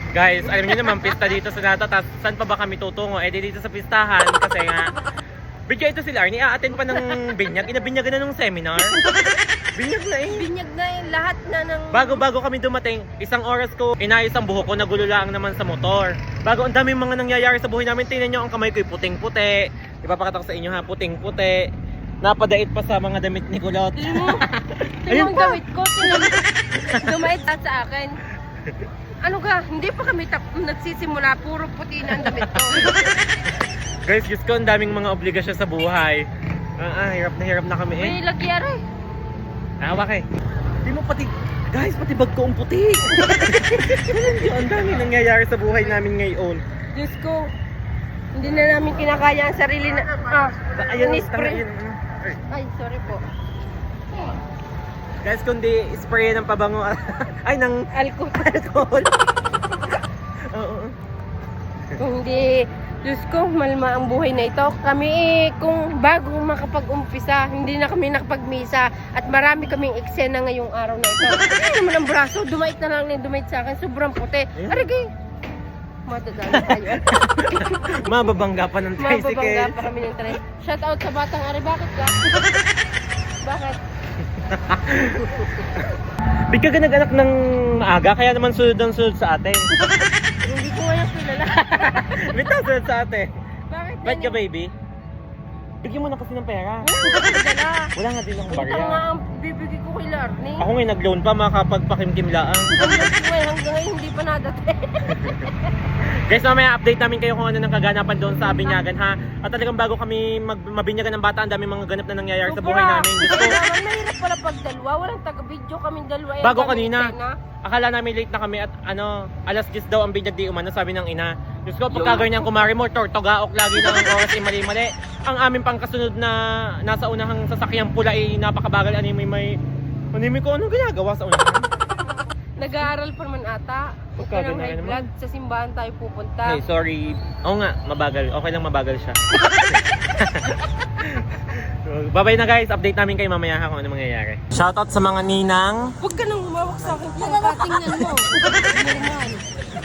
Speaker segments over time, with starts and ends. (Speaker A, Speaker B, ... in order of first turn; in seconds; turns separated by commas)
Speaker A: 0.1-4.9, Speaker B: 0.4-1.2, Speaker A: 5.7-8.9, Speaker B: 6.9-7.2, Speaker A: 9.8-10.4, Speaker B: 10.3-12.2, Speaker A: 11.9-21.7, Speaker A: 22.2-25.6, Speaker B: 24.0-24.4, Speaker B: 25.1-28.1, Speaker A: 26.8-27.1, Speaker B: 29.2-33.2, Speaker A: 32.1-33.5, Speaker A: 34.0-36.2, Speaker A: 36.8-38.2, Speaker B: 38.0-38.8, Speaker A: 39.8-40.3, Speaker A: 40.8-46.6, Speaker B: 46.9-47.5, Speaker B: 48.3-51.6, Speaker A: 50.6-52.4, Speaker B: 52.5-53.2, Speaker A: 55.2-57.8, Speaker B: 57.9-58.8, Speaker A: 58.4-59.1, Speaker A: 60.5-60.9, Speaker B: 62.0-75.0, Speaker A: 74.5-74.9, Speaker B: 76.1-77.7, Speaker A: 76.5-79.9, Speaker B: 79.0-82.4, Speaker B: 83.4-83.8, Speaker A: 84.3-85.8, Speaker A: 86.5-89.6, Speaker B: 90.4-92.4, Speaker A: 91.5-93.3, Speaker B: 93.7-94.4, Speaker A: 94.0-94.7, Speaker A: 95.8-97.2, Speaker B: 96.8-97.9, Speaker A: 97.9-99.0, Speaker B: 98.5-100.7, Speaker A: 100.6-102.7, Speaker B: 102.8-105.7, Speaker A: 105.1-105.5, Speaker A: 106.2-113.6, Speaker B: 112.5-117.3, Speaker A: 116.4-129.5, Speaker B: 121.9-122.5, Speaker A: 130.1-131.6, Speaker B: 132.6-136.6, Speaker A: 134.2-135.1, Speaker A: 136.4-139.2, Speaker B: 139.4-139.9, Speaker A: 139.7-145.9, Speaker B: 146.0-149.4, Speaker A: 147.8-148.5